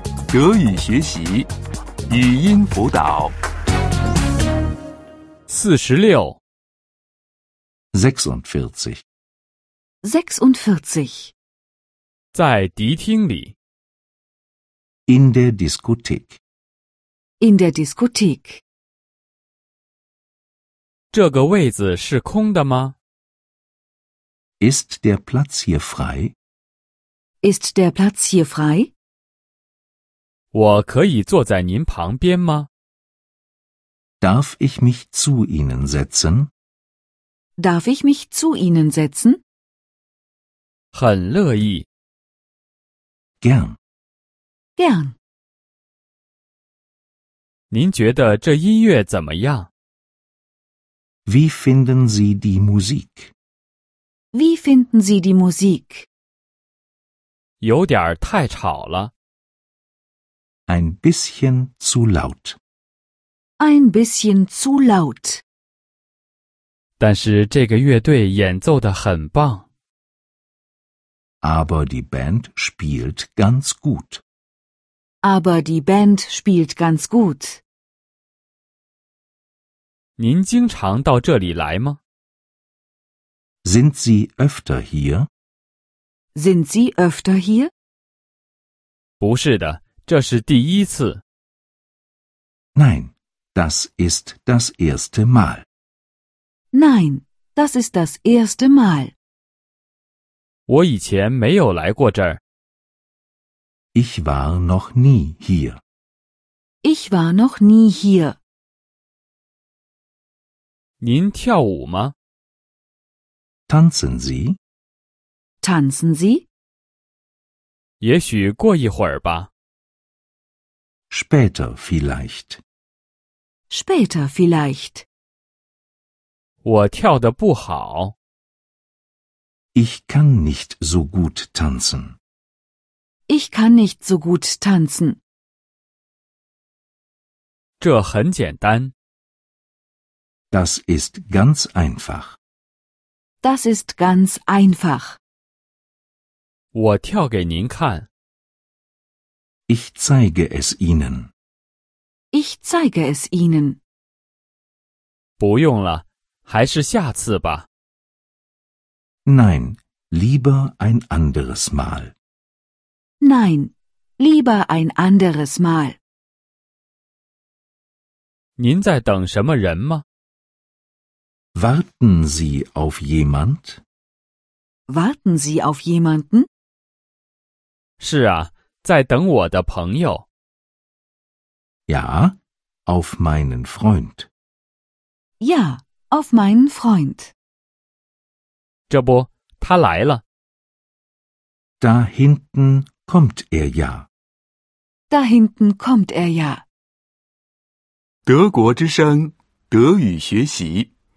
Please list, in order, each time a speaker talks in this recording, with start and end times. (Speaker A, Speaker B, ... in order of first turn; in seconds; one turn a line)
Speaker A: 0.3-1.5
Speaker A: 2.1-3.3
Speaker B: 5.5-6.4
Speaker C: 7.9-9.0
Speaker D: 10.0-11.3
Speaker B: 12.3-13.5
Speaker C: 15.1-16.4
Speaker D: 17.4-18.6
Speaker B: 21.1-22.9
Speaker C: 24.6-26.3
Speaker D: 27.4-28.9
Speaker B: 30.5-32.7
Speaker C: 34.2-36.5
Speaker D: 37.6-39.4
Speaker B: 40.9-41.9
Speaker C: 43.4-43.8
Speaker D: 44.8-45.1
Speaker B: 47.7-49.7
Speaker C: 51.2-53.3
Speaker D: 54.3-56.1
Speaker B: 57.6-59.1
Speaker C: 60.7-62.6
Speaker D: 63.6-65.4
Speaker B: 67.0-69.6
Speaker C: 71.4-74.2
Speaker D: 75.2-77.6
Speaker B: 80.2-82.0
Speaker C: 83.6-85.3
Speaker D: 86.3-87.7
Speaker B: 89.2-91.2
Speaker C: 92.7-95.7
Speaker D: 96.7-99.1
Speaker B: 100.7-102.4
Speaker C: 103.9-105.8
Speaker D: 106.8-108.4
Speaker B: 111.0-112.1
Speaker C: 113.7-114.6
Speaker D: 115.6-116.5
Speaker B: 118.0-119.5
Speaker C: 121.1-122.6
Speaker D: 123.7-125.0
Speaker B: 126.6-128.1
Speaker C: 129.7-132.2
Speaker D: 133.3-135.2
Speaker B: 137.8-138.9
Speaker C: 140.5-142.4
Speaker D: 143.4-145.2
Speaker B: 146.7-148.1
Speaker C: 149.7-151.3
Speaker D: 152.3-153.8
Speaker B: 155.4-157.7
Speaker C: 159.2-162.1
Speaker D: 163.2-166.0
Speaker B: 168.6-170.0
Speaker C: 171.5-173.8
Speaker D: 174.9-176.5
Speaker B: 178.0-180.2
Speaker C: 181.9-184.3
Speaker D: 185.4-187.3
Speaker B: 188.9-190.2
Speaker C: 191.8-194.1
Speaker D: 195.1-196.6
Speaker A: 198.3-200.9